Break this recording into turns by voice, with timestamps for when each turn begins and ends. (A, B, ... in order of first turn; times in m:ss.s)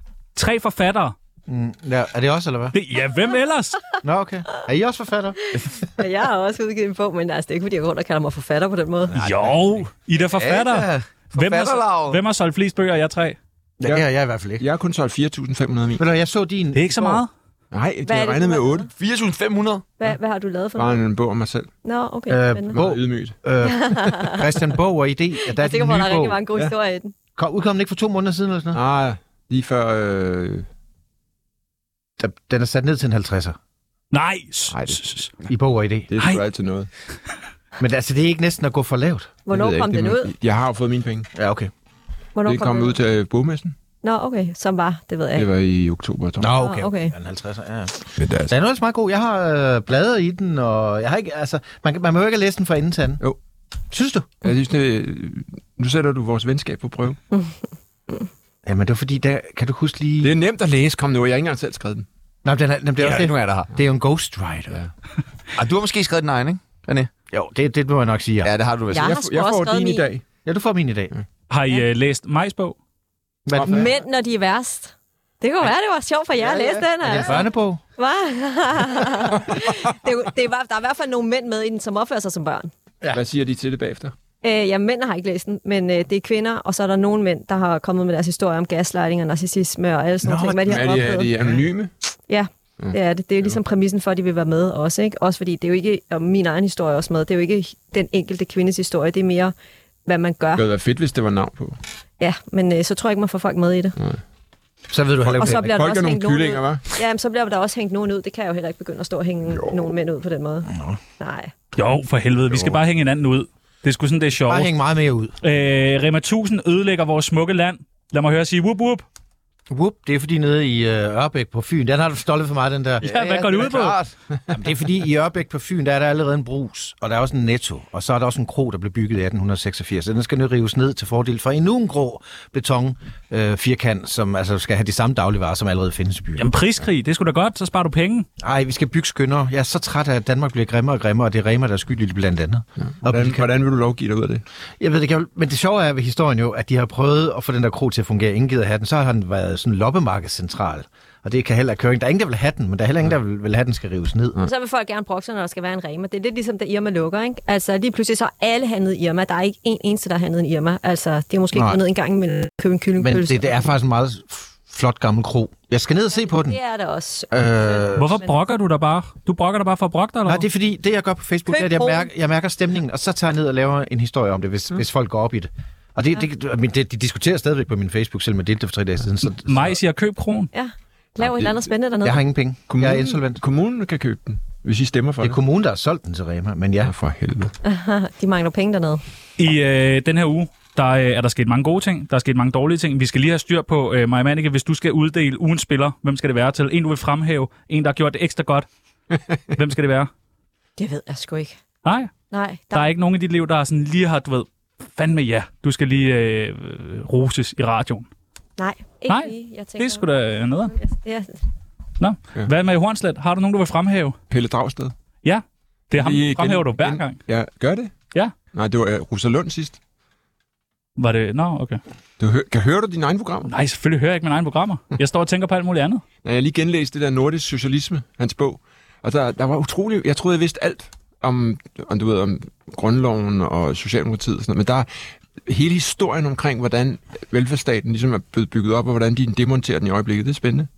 0:00.3-0:01.1 A
0:01.5-0:02.7 B
0:02.7-0:03.8 A
0:04.0-0:05.4 B
0:05.5-0:09.2 C
0:09.1-0:09.8 B
0:09.2-0:13.4 A
0:10.2-0:12.2 D
0:13.8-0:14.6 B
0:14.6-0:16.0 E
0:16.0-0:17.2 B
0:16.7-0:17.3 A
0:17.7-0:18.9 E
0:18.0-0:18.9 C
0:18.9-0:19.9 D
0:20.0-0:21.0 C
0:20.7-0:21.7 E
0:21.8-0:22.8 C
0:22.3-0:26.4 B
0:22.7-0:23.4 E
0:23.6-0:24.4 C
0:25.5-0:27.1 C
0:27.4-0:28.8 B
0:28.7-0:30.6 E
0:32.2-0:33.6 B
0:34.1-0:35.3 A
0:34.7-0:35.0 E
0:35.5-0:36.1 B
0:36.1-0:36.9 E
0:36.2-0:36.4 A
0:37.8-0:39.4 B
0:39.4-0:40.3 C
0:39.5-0:41.3 E
0:41.3-0:41.7 B
0:42.3-0:43.0 C
0:42.4-0:43.7 E
0:44.0-0:45.5 C
0:45.3-0:46.6 E
0:46.4-0:53.2 B
0:46.6-0:47.1 C
0:48.2-0:48.5 E
0:53.9-0:54.4 B
0:54.4-0:57.2 E
0:58.6-1:00.3 B
1:00.2-1:02.0 E
1:02.4-1:04.8 B
1:03.0-1:03.7 D
1:05.5-1:07.1 D
1:07.3-1:08.5 B
1:08.4-1:09.2 D
1:08.9-1:10.1 C
1:08.9-1:10.2 E
1:10.4-1:11.1 B
1:11.5-1:12.8 A
1:13.4-1:13.9 B
1:13.5-1:13.9 E
1:13.6-1:22.7 C
1:17.0-1:17.8 B
1:23.1-1:24.1 E
1:24.4-1:31.3 C
1:30.2-1:31.1 B
1:30.6-1:31.9 E
1:32.3-1:39.5 C
1:32.8-1:33.6 E
1:40.0-1:40.6 C
1:40.5-1:41.8 E
1:42.2-1:44.0 C
1:44.9-1:45.8 B
1:45.2-1:46.8 E
1:45.4-1:51.5 C
1:50.7-1:51.0 B
1:51.8-1:54.7 A
1:54.4-1:55.3 B
1:55.4-1:59.0 A
1:59.7-2:03.0 B
2:03.0-2:04.1 D
2:03.0-2:04.0 A
2:04.5-2:16.5 B
2:16.4-2:18.3 A
2:18.4-2:23.5 B
2:22.8-2:24.4 E
2:24.8-2:34.4 B
2:34.4-2:43.6 C
2:41.5-2:41.8 B
2:43.0-2:46.6 B
2:46.1-2:48.4 C
2:47.3-2:48.2 B
2:48.0-2:50.4 A
2:50.2-2:59.8 B
2:51.5-2:52.1 C
2:59.4-3:00.5 A
3:00.5-3:02.3 C
3:01.2-3:01.7 E
3:02.0-3:03.4 B
3:02.7-3:05.4 E
3:05.2-3:06.9 B
3:06.8-3:07.5 E
3:07.6-3:09.0 C
3:09.4-3:18.7 A
3:19.5-3:20.1 A
3:20.8-3:21.6 C
3:21.8-3:22.1 A
3:22.3-3:22.9 C
3:22.7-3:28.1 A
3:28.6-3:30.1 C
3:29.1-3:30.7 A
3:30.7-3:31.4 C
3:32.0-3:34.2 A
3:34.3-3:34.9 E
3:35.2-3:37.2 A
3:35.9-3:37.9 E
3:38.5-3:39.8 E
3:41.0-3:41.8 A
3:42.2-3:43.5 E
3:43.5-3:46.0 A
3:46.2-3:54.9 E
3:55.4-4:00.7 E